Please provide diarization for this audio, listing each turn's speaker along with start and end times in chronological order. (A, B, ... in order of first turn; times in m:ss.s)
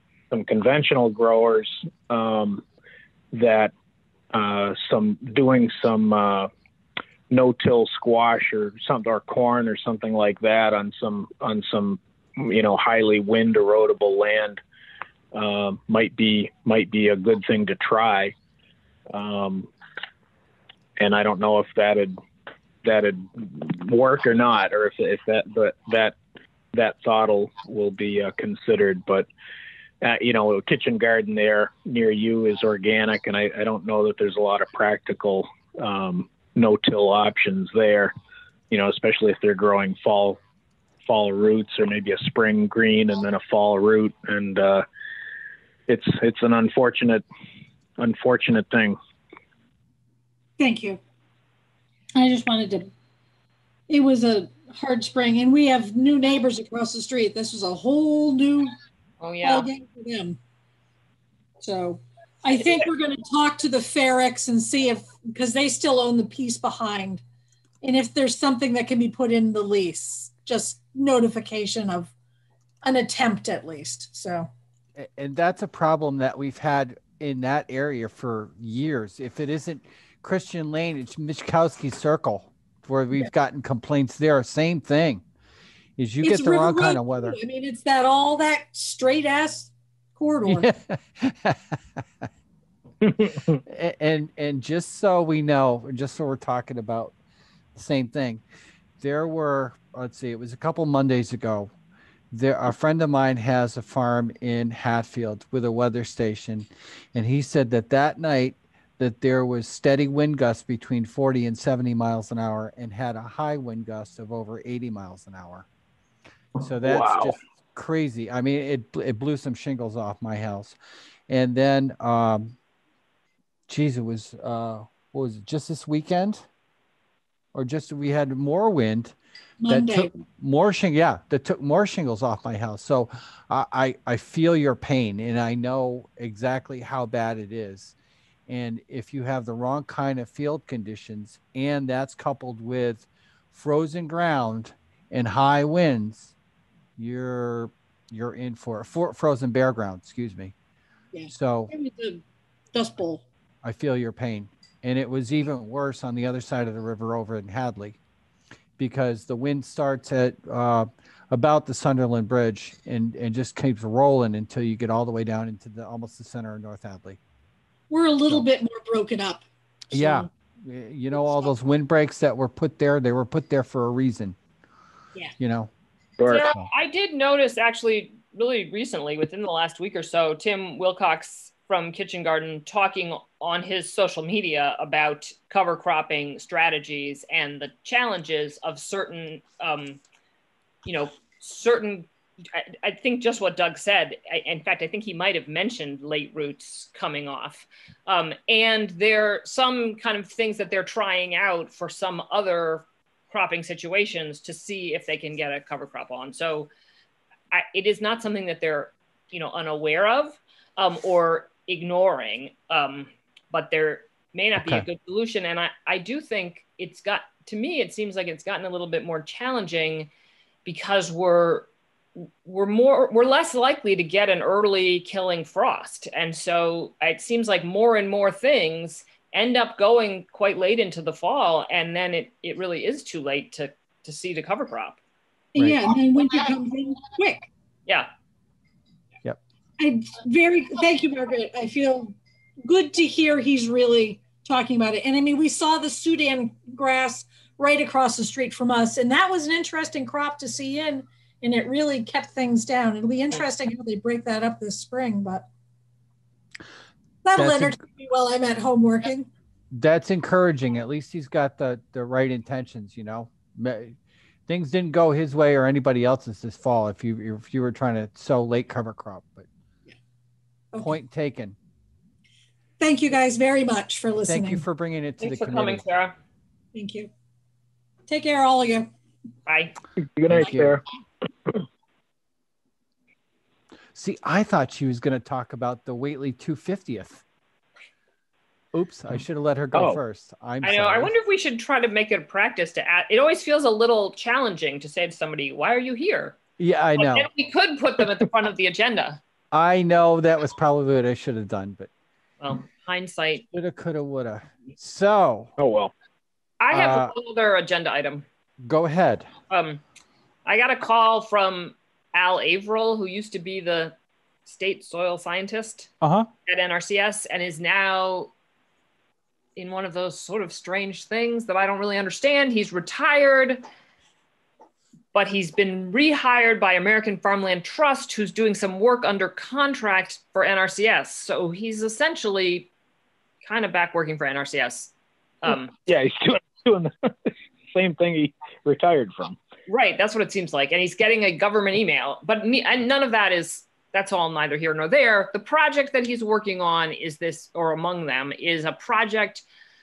0:00.3-0:02.6 A
0:03.3-0:03.7 A
0:04.3-0:06.5 A
0:07.3-0:14.6 A
0:15.3-0:18.3 A
0:19.1-0:19.7 A
0:21.0-0:22.2 A
0:22.8-0:26.2 A
0:26.7-0:29.3 A
0:30.0-0:38.1 A
0:38.7-0:40.4 A
0:41.0-0:44.8 A
0:45.9-0:47.2 A
0:48.0-0:49.0 A
0:50.6-0:51.0 B
0:52.2-0:52.9 B
0:53.9-0:58.7 B
0:59.2-0:59.7 C
0:59.4-1:00.4 B
1:01.6-1:07.2 B
1:07.8-1:12.1 B
1:12.8-1:14.5 B
1:15.0-1:25.2 D
1:26.0-1:27.4 D
1:26.2-1:30.7 B
1:30.5-1:32.2 D
1:33.2-1:33.6 A
1:33.6-1:37.2 D
1:37.8-1:38.4 D
1:39.0-1:41.7 D
1:42.3-1:55.7 D
1:56.6-2:00.8 D
1:56.8-1:57.4 A
2:01.3-2:02.6 D
2:03.7-2:06.5 D
2:07.5-2:09.2 D
2:09.6-2:10.1 B
2:09.7-2:18.0 D
2:18.5-2:26.4 D
2:27.0-2:30.5 D
2:31.1-2:33.2 B
2:31.3-2:31.7 D
2:33.6-2:38.0 D
2:38.8-2:47.2 D
2:47.9-2:50.3 B
2:49.9-2:54.4 D
2:55.4-2:55.7 D
2:56.2-2:56.5 A
2:56.3-3:10.0 C
2:56.4-2:56.7 D
3:10.8-3:26.7 C
3:27.5-3:40.1 C
3:34.6-3:34.8 D
3:40.6-3:41.7 C
3:42.4-3:55.0 C
3:55.6-3:57.5 B
3:55.6-3:55.9 D
3:59.8-4:15.5 B
4:17.2-4:19.3 B
4:17.4-4:17.8 D
4:19.7-4:29.5 D
4:30.8-4:31.6 D
4:32.8-4:34.6 B
4:34.2-4:35.8 D
4:35.2-4:36.1 C
4:36.7-4:37.1 B
4:38.1-4:38.9 B
4:39.5-4:39.8 C
4:40.0-4:40.8 A
4:40.3-4:40.8 D
4:44.0-4:47.2 D
4:48.7-4:51.1 D
4:49.7-4:50.0 A
4:50.6-4:56.4 C
4:56.6-4:57.3 D
4:57.0-4:59.2 C
4:59.5-5:01.9 D
5:02.4-5:03.4 C
5:03.5-5:05.5 D
5:05.6-5:05.9 A
5:06.6-5:08.2 C
5:06.7-5:07.1 D
5:08.6-5:09.3 D
5:09.5-5:09.8 C
5:10.5-5:14.0 C
5:14.5-5:15.9 C
5:16.0-5:16.3 D
5:16.5-5:18.3 C
5:19.6-5:23.6 C
5:25.1-5:32.7 C
5:33.4-5:34.9 C
5:35.4-5:35.7 C
5:35.9-5:39.4 A
5:39.7-5:49.4 C